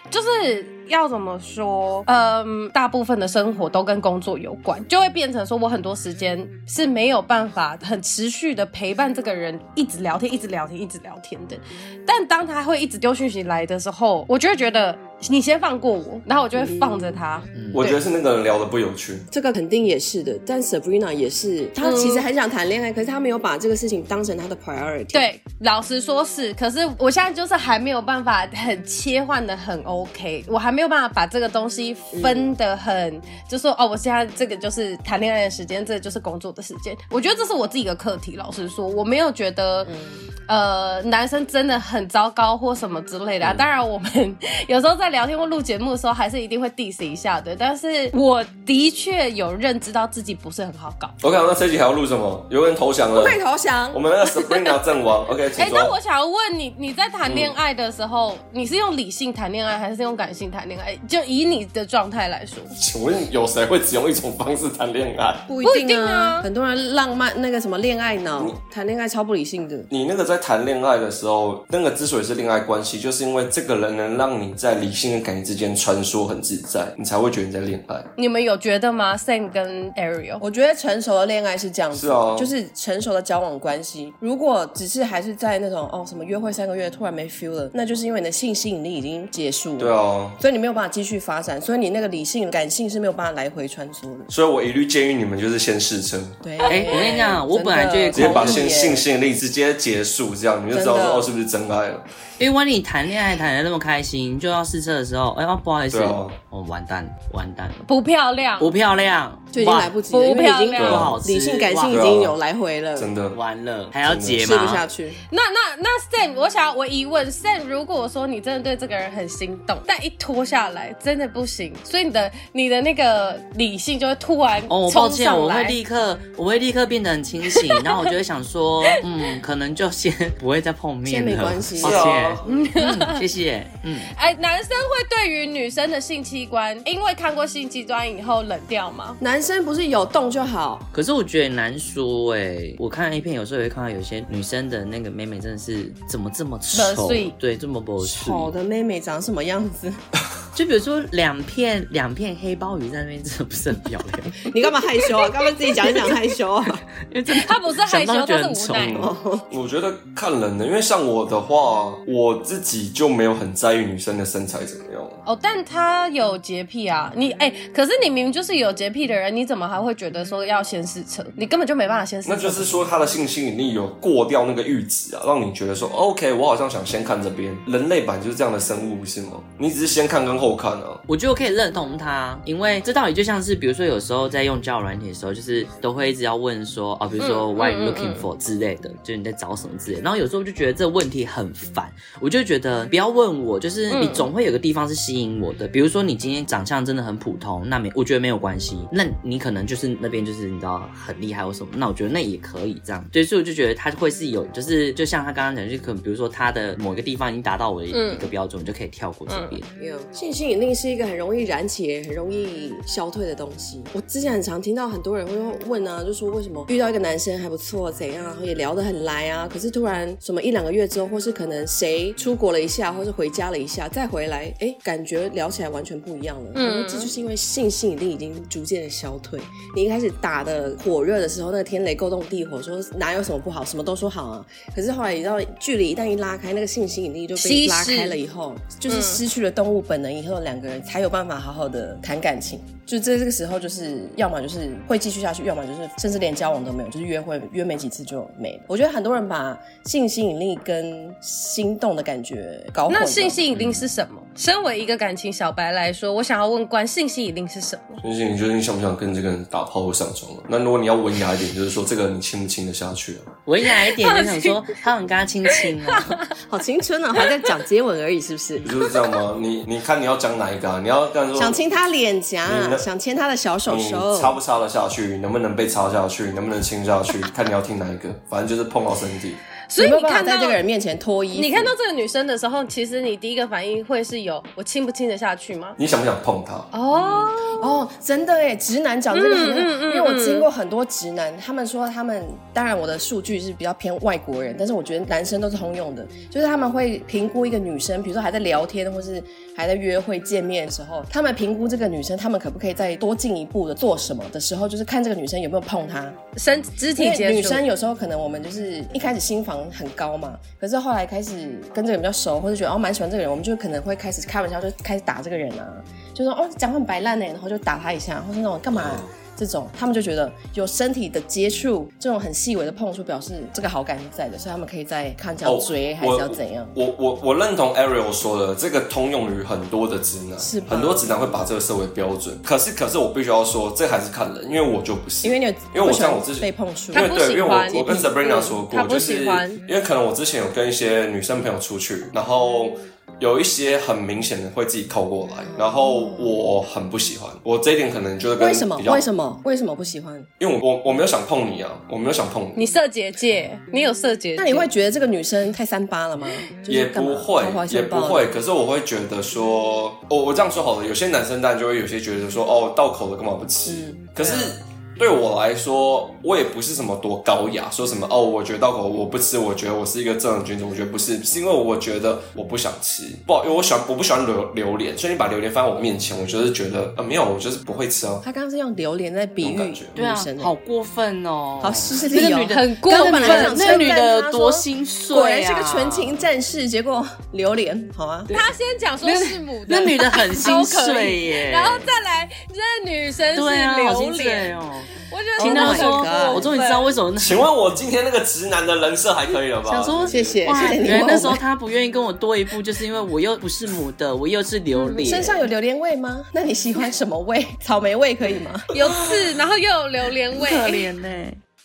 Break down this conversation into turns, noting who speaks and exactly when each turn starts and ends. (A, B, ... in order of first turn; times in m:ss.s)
0:00.1-0:18.0 A
0:16.7-0:17.2 B
0:17.6-0:17.8 C
0:17.7-0:19.3 D
0:19.3-0:25.3 B
0:21.8-0:22.2 A
0:25.1-0:39.9 A
0:32.1-0:32.5 B
0:39.9-0:40.2 B
0:40.5-0:51.2 A
0:51.2-0:53.4 D
0:53.1-0:54.0 B
0:53.9-0:56.0 D
0:55.6-1:02.7 A
0:57.3-0:57.6 D
1:02.7-1:05.5 D
1:05.5-1:09.9 B
1:05.6-1:06.5 A
1:09.9-1:18.1 D
1:18.2-1:20.4 A
1:20.4-1:34.3 B
1:21.9-1:22.5 D
1:29.8-1:30.4 D
1:34.3-1:36.4 D
1:36.4-1:39.1 B
1:36.7-1:38.7 C
1:38.1-1:42.0 D
1:40.7-1:41.3 B
1:42.4-1:47.9 C
1:45.9-1:46.4 D
1:47.9-1:48.7 A
1:48.6-1:49.9 C
1:49.5-1:53.1 B
1:50.1-1:51.0 A
1:50.8-1:51.2 D
1:50.8-1:52.1 C
1:51.9-1:52.4 D
1:53.0-1:53.4 D
1:53.3-1:54.8 C
1:54.0-1:54.4 D
1:54.3-1:55.2 B
1:55.3-2:05.8 A
2:04.7-2:14.1 C
2:11.1-2:12.2 B
2:11.8-2:12.4 D
2:12.4-2:13.2 A
2:14.1-2:19.2 A
2:19.2-2:20.9 B
2:20.9-2:28.5 C
2:26.7-2:27.3 A
2:28.0-2:30.0 B
2:30.5-2:34.5 C
2:34.4-2:36.8 B
2:37.1-2:39.0 C
2:37.3-2:39.0 A
2:38.7-2:45.2 D
2:38.9-2:39.5 B
2:45.3-2:52.8 A
2:52.2-3:01.0 D
3:01.1-3:29.7 C
3:07.2-3:08.2 A
3:13.9-3:14.3 A
3:27.9-3:28.3 A
3:29.3-3:29.6 A
3:29.8-4:13.4 B
3:46.6-3:47.1 A
3:57.4-3:58.2 A
3:58.9-3:59.2 A
4:12.9-4:18.0 A
4:18.0-4:23.3 D
4:23.5-4:26.2 C
4:23.6-4:24.5 A
4:25.5-4:26.2 A
4:26.5-4:28.7 B
4:28.6-4:31.6 D
4:31.4-4:34.4 B
4:32.5-4:32.8 D
4:33.7-4:39.4 D
4:39.7-4:40.6 A
4:39.8-4:41.7 B
4:41.3-4:45.8 A
4:45.8-4:46.7 D
4:46.7-4:47.7 A
4:46.9-5:06.2 B
4:49.1-4:50.5 A
5:06.4-5:07.6 A
5:07.0-5:26.7 B
5:18.7-5:19.1 D
5:25.4-5:49.1 D
5:30.4-5:31.1 B
5:35.2-5:38.1 B
5:36.9-5:39.6 A
5:45.5-5:46.2 B
5:48.4-5:50.3 B
5:50.4-5:52.6 D
5:52.6-5:54.7 A
5:54.4-5:58.3 B
5:56.7-6:18.2 D
6:03.7-6:04.6 B
6:18.2-6:20.5 B
6:19.4-6:19.9 D
6:20.0-6:26.2 C
6:21.6-6:28.3 B
6:22.1-6:23.9 A
6:28.3-6:34.5 A
6:29.0-6:31.9 C
6:33.3-6:37.5 C
6:35.1-6:36.9 A
6:35.4-6:36.5 B
6:37.2-6:40.4 D
6:39.7-6:45.4 C
6:40.1-6:41.4 B
6:44.7-6:45.2 A
6:45.0-6:48.7 B
6:48.7-6:50.9 A
6:48.8-6:49.3 C
6:50.3-6:51.4 C